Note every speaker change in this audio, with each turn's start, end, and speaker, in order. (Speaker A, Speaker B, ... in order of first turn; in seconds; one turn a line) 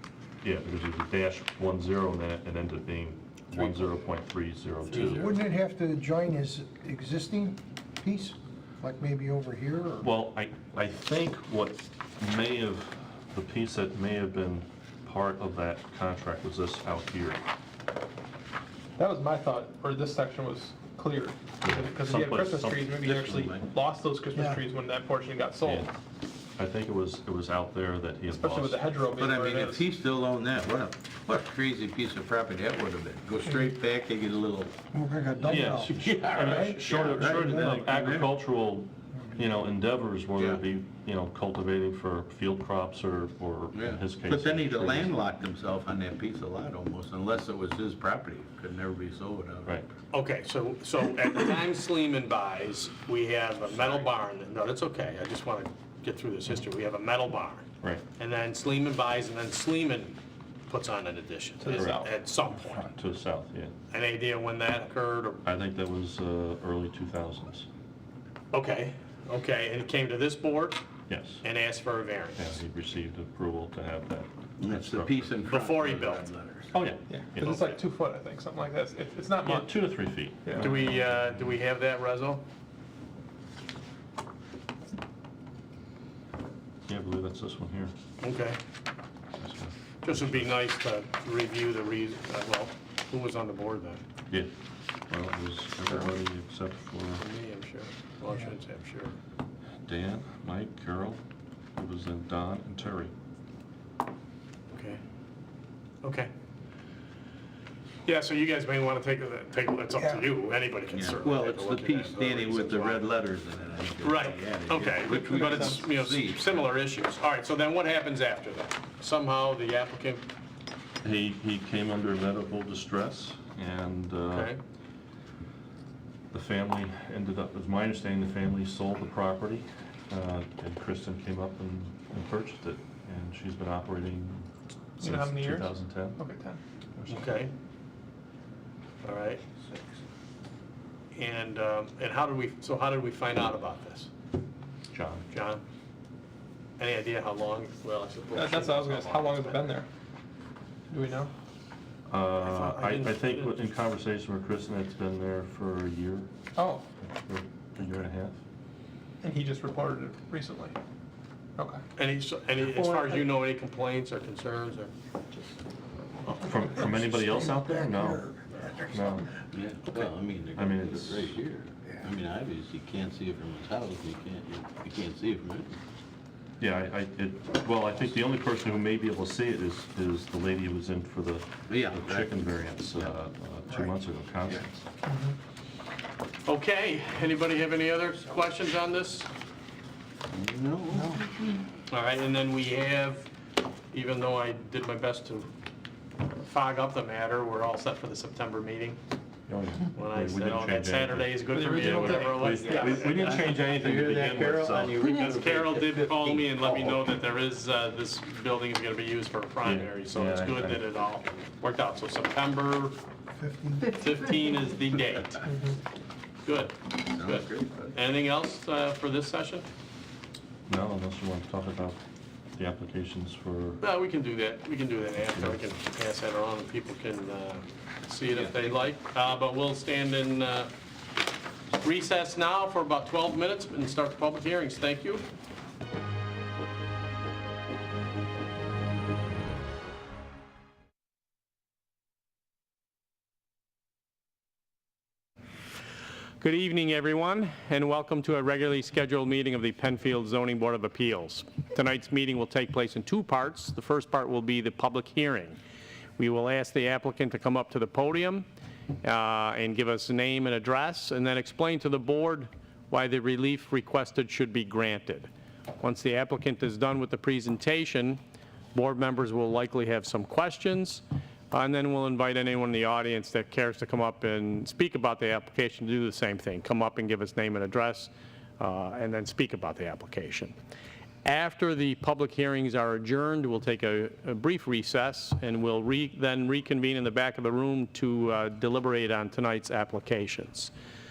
Speaker A: 0.4-5.3
Speaker B: 4.9-10.1
Speaker A: 10.0-17.4
Speaker C: 19.0-25.9
Speaker A: 21.6-23.5
Speaker D: 23.2-23.6
Speaker B: 24.4-24.6
Speaker A: 25.6-25.9
Speaker A: 26.6-28.9
Speaker C: 28.3-29.8
Speaker D: 29.1-34.8
Speaker B: 34.9-38.1
Speaker A: 35.5-45.1
Speaker D: 35.5-38.3
Speaker D: 40.4-40.6
Speaker D: 43.7-49.8
Speaker E: 50.1-57.6
Speaker E: 58.2-62.9
Speaker C: 61.6-62.1
Speaker A: 61.7-62.0
Speaker A: 62.9-63.7
Speaker E: 63.9-65.4
Speaker A: 65.4-67.7
Speaker E: 68.5-70.8
Speaker A: 71.1-71.4
Speaker E: 71.4-72.4
Speaker A: 72.3-75.3
Speaker D: 74.6-76.7
Speaker E: 75.4-76.3
Speaker A: 76.7-77.8
Speaker C: 77.1-79.8
Speaker A: 79.4-81.1
Speaker E: 80.5-82.4
Speaker A: 86.9-87.9
Speaker E: 88.2-88.6
Speaker A: 89.4-90.5
Speaker E: 90.0-94.0
Speaker A: 95.1-97.2
Speaker E: 97.2-99.1
Speaker A: 99.8-101.2
Speaker A: 101.7-103.1
Speaker E: 104.7-105.0
Speaker E: 106.0-106.3
Speaker E: 108.0-113.1
Speaker D: 110.9-116.6
Speaker E: 114.0-120.2
Speaker A: 121.0-124.5
Speaker E: 124.3-124.6
Speaker A: 126.3-136.2
Speaker C: 135.0-136.6
Speaker E: 137.1-137.5
Speaker E: 139.0-139.4
Speaker E: 141.1-144.1
Speaker A: 144.9-145.3
Speaker E: 145.3-145.6
Speaker E: 146.8-149.8
Speaker C: 148.3-149.9
Speaker C: 150.9-151.3
Speaker A: 152.1-156.3
Speaker E: 152.3-153.6
Speaker C: 156.6-156.8
Speaker A: 157.1-158.4
Speaker C: 159.2-160.8
Speaker E: 161.9-164.9
Speaker C: 162.7-163.2
Speaker A: 166.3-168.3
Speaker B: 166.7-169.2
Speaker A: 168.9-169.2
Speaker D: 169.5-175.7
Speaker A: 170.6-171.4
Speaker A: 176.6-184.8
Speaker D: 181.7-183.1
Speaker E: 186.4-189.3
Speaker D: 190.3-191.6
Speaker E: 191.9-193.3
Speaker E: 193.9-195.5
Speaker E: 196.4-199.0
Speaker A: 199.5-205.0
Speaker E: 199.9-203.3
Speaker C: 201.5-202.6
Speaker D: 202.4-207.0
Speaker E: 205.0-213.0
Speaker A: 209.6-210.8
Speaker B: 213.3-214.2
Speaker E: 213.9-215.5
Speaker E: 216.4-219.7
Speaker D: 217.1-218.0
Speaker A: 220.7-222.0
Speaker A: 222.5-223.8
Speaker E: 223.8-230.7
Speaker A: 225.3-225.6
Speaker D: 228.3-228.8
Speaker E: 231.8-235.2
Speaker E: 246.4-255.6
Speaker E: 256.2-258.4
Speaker E: 259.0-268.2
Speaker E: 268.7-280.5
Speaker E: 281.2-290.7